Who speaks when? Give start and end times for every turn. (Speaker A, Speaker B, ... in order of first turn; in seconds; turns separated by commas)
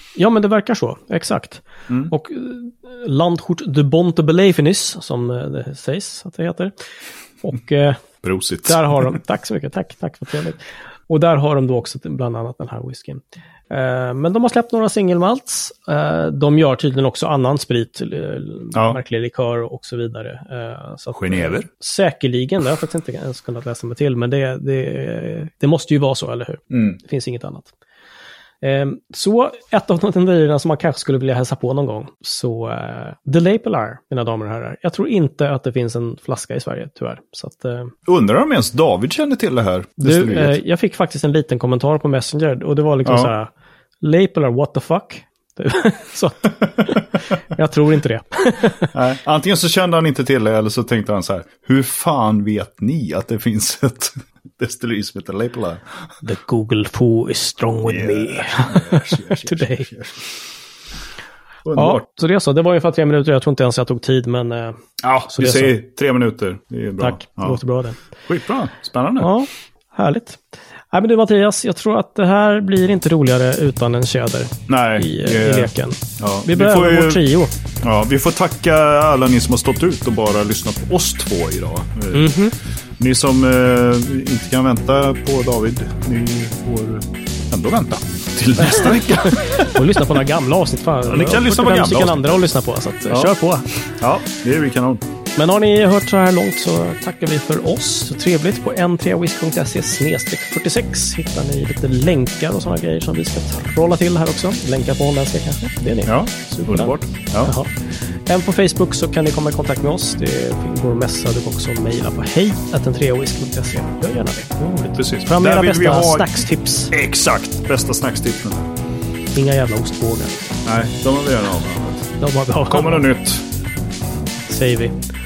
Speaker A: 0.2-6.7, Speaker A: 7.4-8.0, Speaker B: 8.2-9.0, Speaker A: 8.7-27.7, Speaker B: 21.1-21.7, Speaker B: 26.7-27.0, Speaker A: 28.6-37.9, Speaker B: 38.1-40.6, Speaker A: 40.0-48.9, Speaker B: 43.0-43.3, Speaker B: 48.9-55.8, Speaker A: 56.2-59.9, Speaker B: 57.9-60.2, Speaker B: 61.6-62.0, Speaker A: 61.8-65.8, Speaker B: 65.0-67.6, Speaker A: 67.0-68.0, Speaker B: 68.3-69.3, Speaker A: 69.2-77.5, Speaker B: 74.7-77.2, Speaker B: 77.8-82.3, Speaker A: 82.1-82.5, Speaker B: 83.0-90.0, Speaker A: 88.7-93.9, Speaker B: 91.0-92.5, Speaker B: 93.1-93.3, Speaker B: 94.0-95.0, Speaker A: 95.4-116.9, Speaker B: 106.1-107.5, Speaker B: 115.0-116.4, Speaker B: 116.9-118.7, Speaker A: 119.3-120.5, Speaker B: 120.7-122.1, Speaker A: 122.2-123.1, Speaker B: 122.7-123.5, Speaker A: 124.5-125.0